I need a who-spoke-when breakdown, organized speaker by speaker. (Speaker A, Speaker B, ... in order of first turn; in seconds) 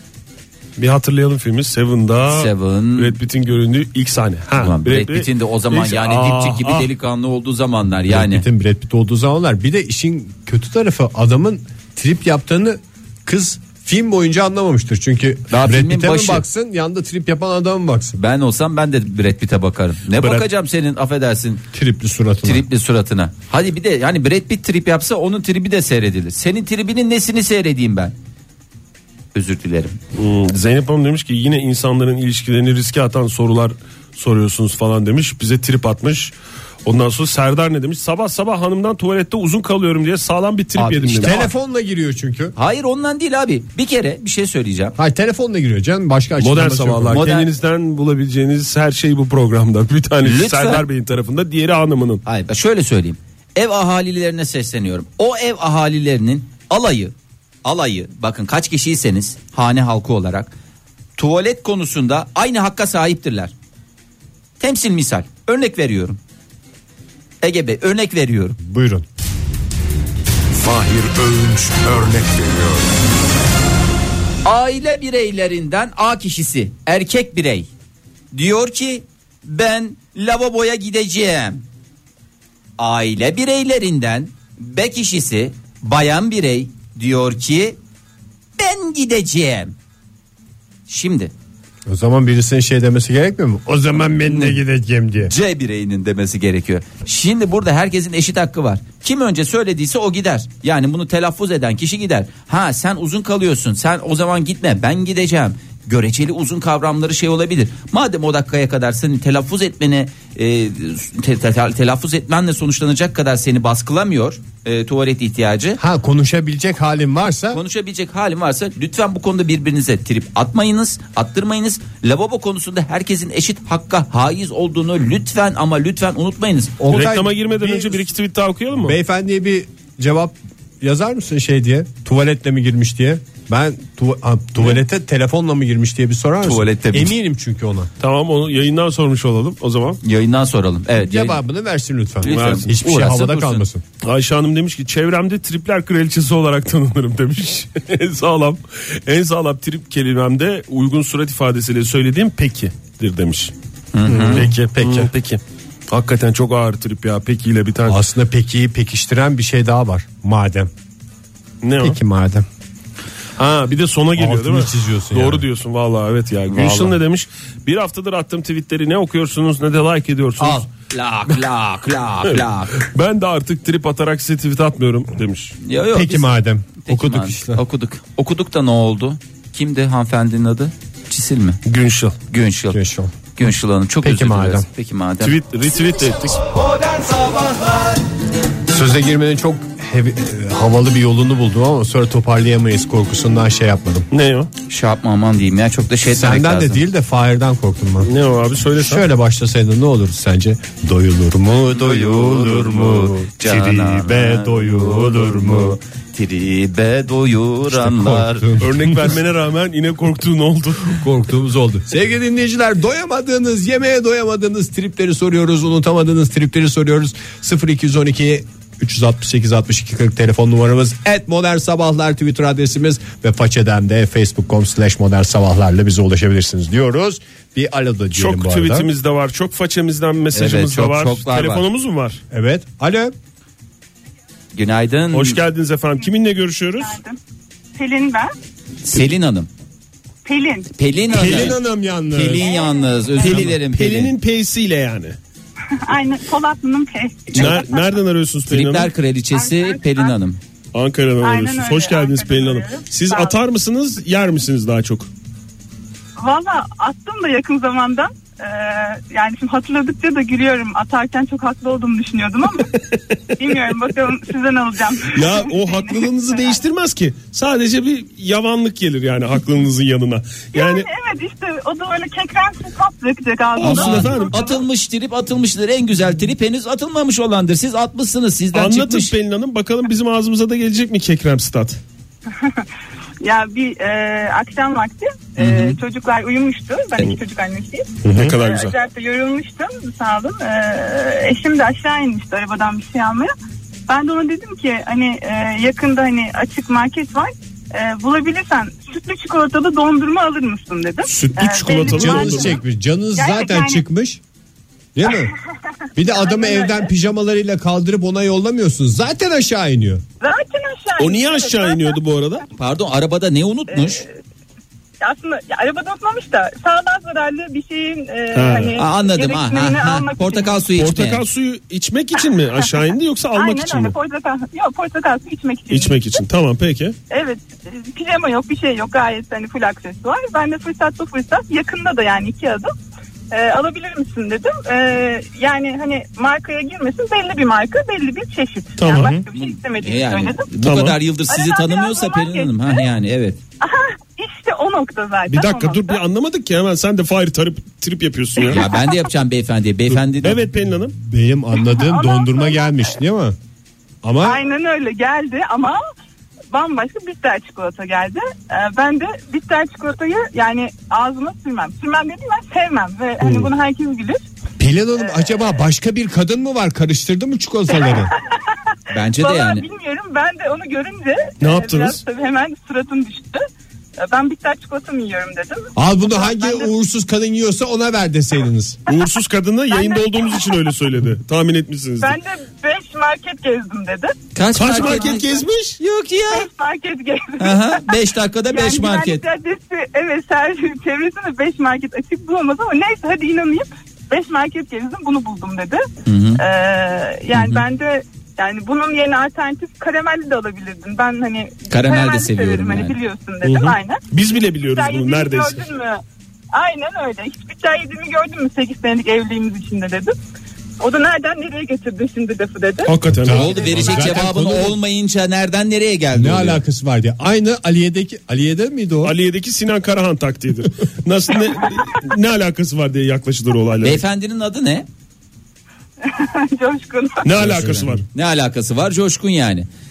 Speaker A: 0.8-6.9, 30.1-36.3, 36.9-41.4, 46.4-52.2, 126.9-128.9, 138.0-140.0, 142.2-142.7, 144.0-153.5, 154.1-158.0, 161.6-162.0, 163.4-170.7, 172.2-175.6, 181.7-182.2, 185.2-186.4, 194.1-194.5, 198.0-199.1, 208.6-211.1, 228.1-232.2, 235.1-237.0, 243.2-245.2, 247.3-248.9, 250.7-255.1, 263.5-263.7, 265.1-270.9, 273.6-274.5, 278.5-281.8, 288.1-288.8, 301.0-302.6, 311.0-312.4, 318.3-318.8, 320.8-323.9, 325.7-326.9, 338.8-339.2, 340.6-341.0, 345.3-348.7, 349.9-350.9, 363.2-363.5, 371.4-372.0, 378.9-382.2, 384.5-385.8, 403.4-405.6, 412.8-413.6, 419.0-424.0, 427.2-428.0
Speaker B: 2.3-3.1, 4.6-8.4, 15.5-16.4, 18.2-21.6, 22.4-28.1, 29.3-30.0, 40.8-41.5, 42.5-45.0, 47.1-47.5, 50.2-50.8, 52.2-60.5, 61.2-63.5, 64.6-66.2, 67.4-68.6, 74.4-77.7, 78.3-81.6, 82.8-87.8, 88.6-89.7, 90.9-91.3, 94.3-94.6, 95.2-115.8, 117.5-126.8, 136.4-137.1, 140.0-141.4, 142.2-143.6, 153.9-154.5, 170.4-172.8, 175.6-181.6, 182.3-182.8, 183.3-185.3, 194.7-196.8, 201.6-208.5, 230.3-231.6, 234.5-235.4, 238.8-239.5, 240.8-241.6, 242.1-244.1, 248.5-250.4, 273.6-279.1, 285.4-285.8, 312.6-314.0, 318.7-321.2, 339.3-343.4, 348.5-350.4, 368.9-369.7, 384.3-386.5, 387.4-389.2, 396.1-396.4, 397.3-397.6, 401.7-402.9, 413.3-416.6, 423.8-424.9, 427.4-429.7
Speaker C: 8.1-18.2, 20.1-20.5, 21.7-22.6, 41.2-42.5, 45.0-47.4, 68.6-69.0, 91.9-95.3, 115.8-117.6, 126.8-128.0, 128.8-137.9, 140.9-143.8, 154.1-155.1, 157.8-160.7, 161.8-162.4, 164.2-165.4, 166.5-166.9, 175.9-177.6, 182.7-183.1, 184.0-184.7, 188.7-194.1, 196.0-198.1, 198.8-205.8, 207.7-209.1, 210.9-228.9, 232.3-233.1, 241.1-242.5, 288.0-288.3, 301.4-304.2, 304.9-305.3, 305.9-310.0, 350.9-353.4, 354.0-354.4, 364.6-368.1, 375.8-378.8, 413.1-414.8, 416.1-419.1
Speaker D: 70.5-72.9
Speaker E: 236.8-237.2, 237.7-238.3, 240.2-240.7, 242.4-243.4, 245.8-248.0, 249.3-250.2, 251.2-253.4, 256.2-262.7, 263.4-266.6, 270.5-274.6, 283.2-293.3, 293.9-302.6, 303.1-303.8, 306.1-306.9, 310.2-312.0, 313.7-314.1, 315.0-320.6, 323.3-326.2, 327.1-332.7, 333.3-340.5, 341.3-342.9, 343.6-346.0, 348.4-348.9, 351.6-352.9, 354.2-355.8, 356.5-364.2, 367.7-368.1, 369.1-373.4, 374.0-376.7, 379.7-380.6, 382.0-384.1, 384.7-385.1, 386.3-395.8, 396.4-404.0, 404.7-406.0, 406.5-410.1, 410.8-412.9, 413.6-414.1, 426.0-427.4